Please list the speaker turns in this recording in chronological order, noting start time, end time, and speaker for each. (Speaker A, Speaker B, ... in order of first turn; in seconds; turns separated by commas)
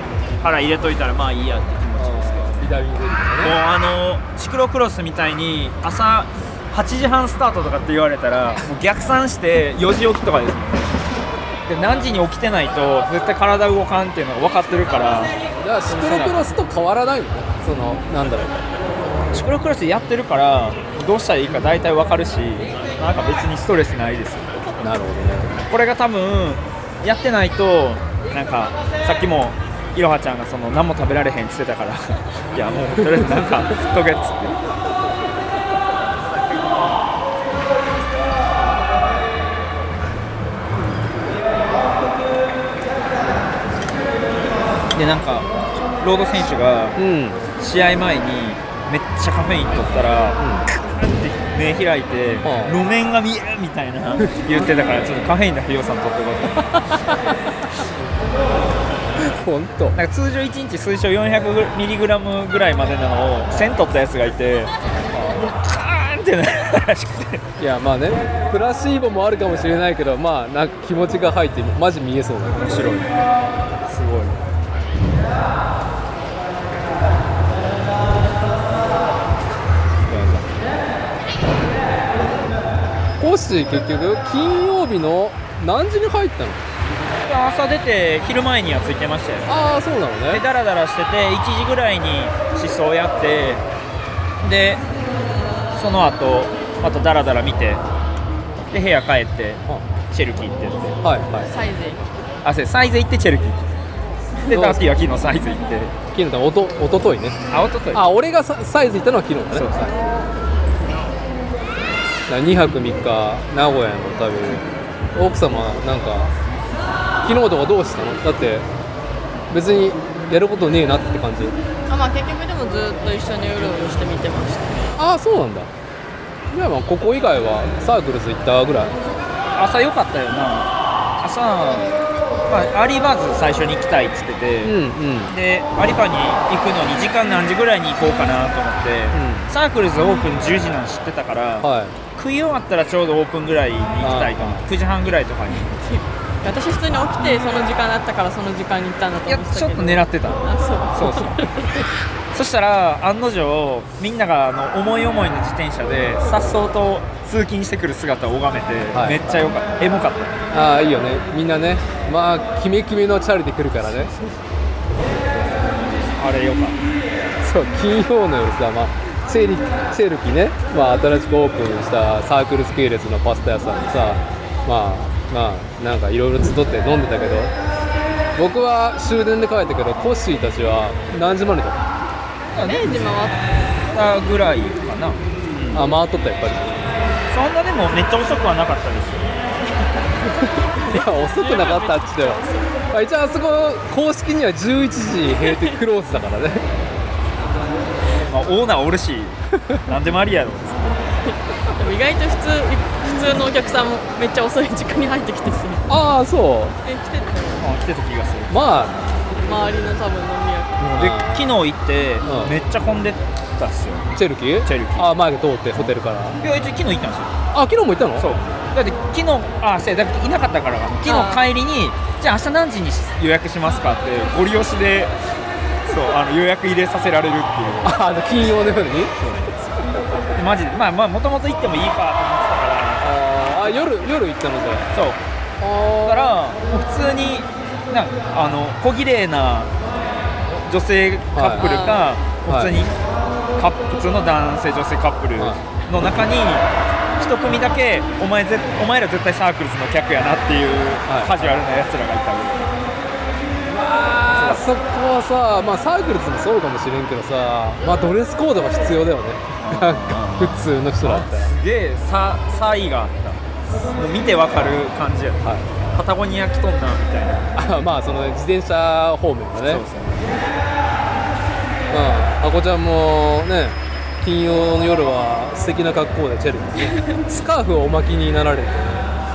Speaker A: 0.4-2.7, Speaker B: 2.0-3.6, Speaker A: 3.4-11.0, Speaker A: 11.7-16.5, Speaker B: 15.6-18.6, Speaker A: 19.3-24.7, Speaker B: 24.8-25.6, Speaker A: 25.7-34.6, Speaker B: 33.0-33.3, Speaker B: 40.8-41.4, Speaker A: 44.9-47.0, Speaker B: 47.0-47.5, Speaker A: 47.6-56.6, Speaker B: 50.4-50.7, Speaker B: 52.4-52.8, Speaker B: 54.2-55.1, Speaker B: 56.7-57.2, Speaker B: 59.2-60.0, Speaker A: 60.0-67.4, Speaker B: 67.6-73.1, Speaker A: 72.7-73.0, Speaker B: 73.9-74.3, Speaker A: 73.9-74.3, Speaker A: 80.1-80.6, Speaker B: 83.2-86.7, Speaker A: 87.2-89.5, Speaker B: 89.5-90.4, Speaker A: 90.3-93.6, Speaker A: 94.4-94.8, Speaker A: 95.7-97.8, Speaker A: 98.6-101.0, Speaker B: 101.0-101.5, Speaker C: 101.5-102.1, Speaker A: 102.4-103.7, Speaker A: 104.5-105.9, Speaker B: 104.5-105.2, Speaker B: 106.1-107.4, Speaker A: 107.5-108.0, Speaker B: 107.9-109.9, Speaker A: 109.5-109.9, Speaker B: 112.3-116.3, Speaker B: 117.2-118.7, Speaker B: 119.5-121.5, Speaker C: 121.9-124.9, Speaker B: 125.0-125.7, Speaker B: 126.5-128.9, Speaker A: 129.6-130.7, Speaker A: 131.2-131.9, Speaker A: 132.5-134.8, Speaker B: 134.6-135.3, Speaker A: 135.3-145.8, Speaker B: 139.1-139.5, Speaker B: 141.6-141.9, Speaker B: 144.0-144.7, Speaker C: 145.5-151.8, Speaker A: 149.3-151.4, Speaker A: 152.3-160.4, Speaker B: 158.9-159.4, Speaker B: 160.5-164.1, Speaker A: 163.8-164.3, Speaker A: 165.4-166.8, Speaker B: 167.4-177.5, Speaker B: 178.3-181.8, Speaker C: 182.5-183.5, Speaker A: 182.5-183.1, Speaker A: 183.9-185.8, Speaker B: 185.7-186.9, Speaker A: 187.3-189.4, Speaker B: 190.3-196.6, Speaker C: 191.3-192.9, Speaker C: 195.5-195.8, Speaker A: 198.1-201.0, Speaker C: 201.2-205.9, Speaker B: 205.9-206.8, Speaker C: 206.8-207.7, Speaker A: 207.6-208.8, Speaker B: 208.5-209.0, Speaker C: 209.4-211.0, Speaker B: 210.8-211.6, Speaker A: 211.0-214.1, Speaker B: 212.2-212.6, Speaker B: 214.1-216.4, Speaker A: 214.6-215.1, Speaker A: 215.8-217.3, Speaker B: 217.5-218.3, Speaker A: 218.2-225.1, Speaker C: 221.1-221.4, Speaker A: 225.9-227.9, Speaker B: 227.8-229.1, Speaker A: 229.2-233.2, Speaker B: 233.0-234.9, Speaker A: 234.9-235.2, Speaker B: 235.6-236.4, Speaker A: 236.1-239.8, Speaker A: 240.5-246.7, Speaker B: 241.3-242.7, Speaker C: 241.6-242.1, Speaker B: 245.4-245.6, Speaker A: 247.2-252.7, Speaker B: 251.1-251.5, Speaker B: 253.8-261.5, Speaker A: 254.4-254.6, Speaker A: 259.6-263.4, Speaker A: 263.9-265.4, Speaker A: 265.9-267.5, Speaker B: 267.6-269.8, Speaker A: 269.6-270.4, Speaker B: 271.9-279.1, Speaker C: 276.8-277.2